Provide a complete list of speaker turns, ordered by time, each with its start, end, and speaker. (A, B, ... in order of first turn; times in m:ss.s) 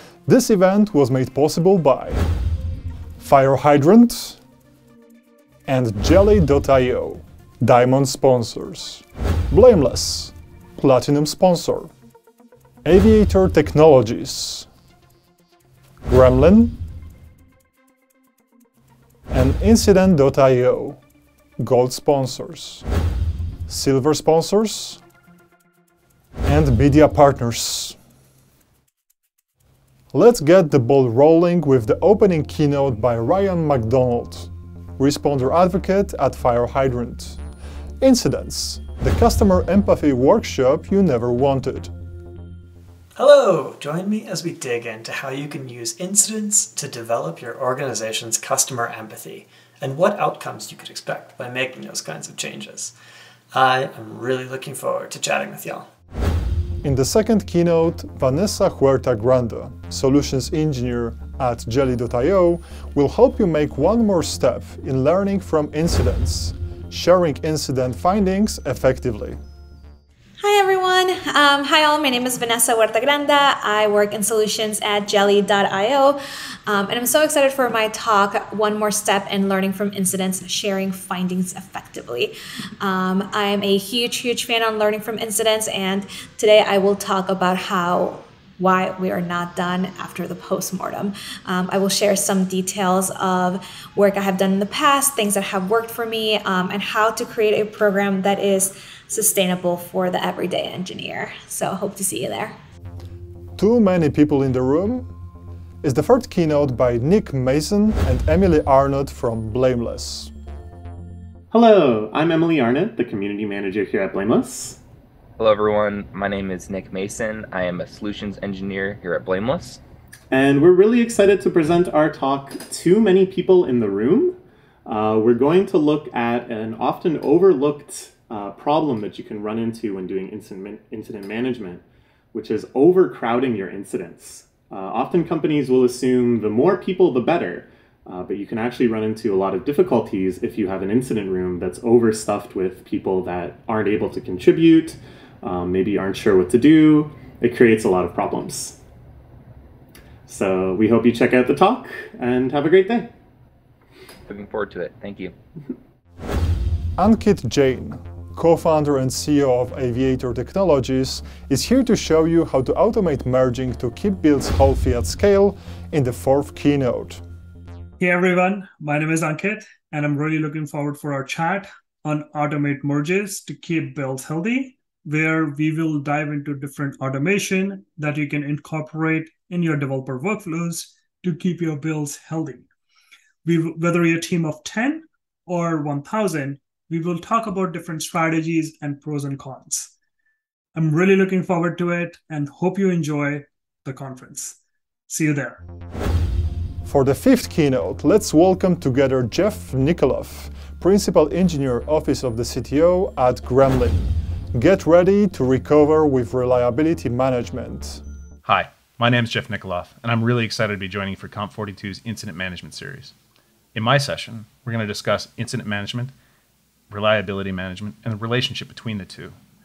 0:00.2-0:02.2 A
0:03.2-0:04.4 A
0:05.7-0:11.9 A
0:12.8-0:14.7 A
0:16.0-0:16.8 A
0:19.3-0:21.0 A
0:21.6-0:22.8 A
0:23.7-0:25.0 A
0:26.4-0:28.0 A
0:30.1-0:37.4 A
0:38.0-0:41.9 A
0:43.2-0:52.9 B
0:53.5-0:55.8 B
0:56.8-1:09.4 A
1:10.4-1:42.5 C
1:43.6-1:45.1 A
1:45.8-1:50.3 A
1:51.5-1:54.8 D
1:55.4-1:59.8 E
2:00.3-2:11.8 D
2:12.3-2:28.8 D
2:30.3-2:33.1 D
2:34.3-2:35.3 E
2:37.0-2:47.2 A
2:48.0-3:02.7 F
3:03.4-3:09.9 F
3:10.7-3:14.6 F
3:15.1-3:15.6 F
3:16.8-3:28.0 A
3:28.4-3:33.1 G
3:33.7-3:36.1 G
3:36.9-3:39.4 G